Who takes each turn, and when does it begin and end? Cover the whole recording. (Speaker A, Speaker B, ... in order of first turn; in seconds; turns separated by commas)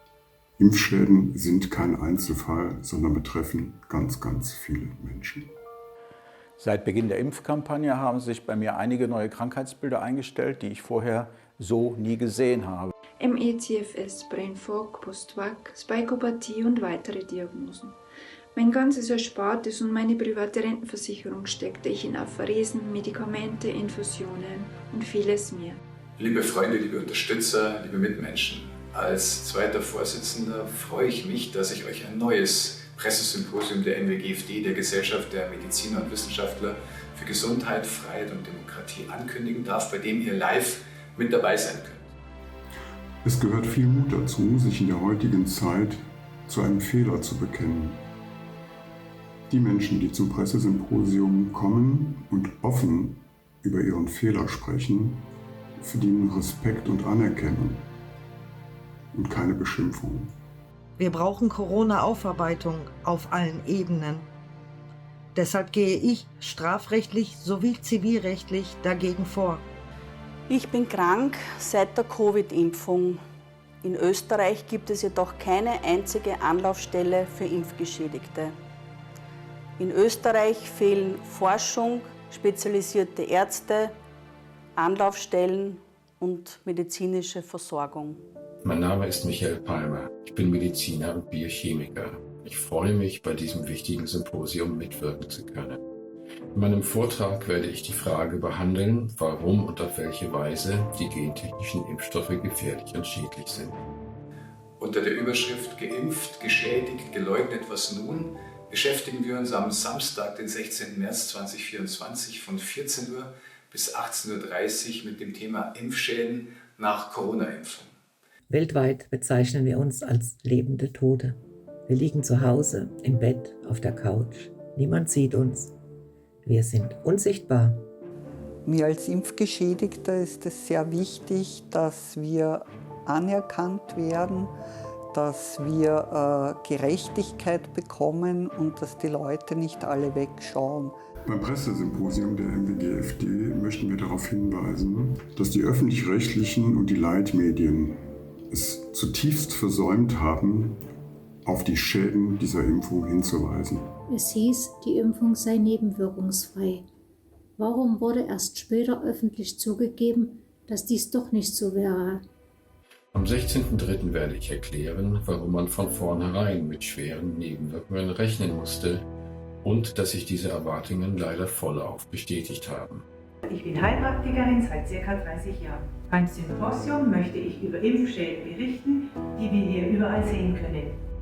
Speaker A: 0.6-5.5, Speaker B: 6.6-12.9, Speaker C: 13.2-18.0, Speaker C: 18.6-25.8, Speaker D: 26.2-42.1, Speaker A: 43.2-48.1, Speaker A: 49.5-55.3, Speaker A: 55.8-57.9, Speaker A: 59.1-60.4, Speaker E: 61.0-64.3, Speaker E: 65.3-69.6, Speaker F: 70.5-73.2, Speaker F: 73.8-78.5, Speaker F: 79.8-84.0, Speaker F: 84.8-88.2, Speaker G: 88.6-95.8, Speaker G: 96.5-103.7, Speaker D: 104.8-117.9, Speaker H: 118.5-125.7, Speaker H: 126.4-127.8, Speaker I: 128.7-134.5, Speaker I: 135.1-141.0, Speaker A: 141.3-150.8, Speaker A: 151.4-153.9, Speaker J: 154.1-156.9, Speaker J: 157.6-162.2, Speaker G: 163.1-169.1, Speaker G: 169.6-173.1, Speaker K: 173.4-181.0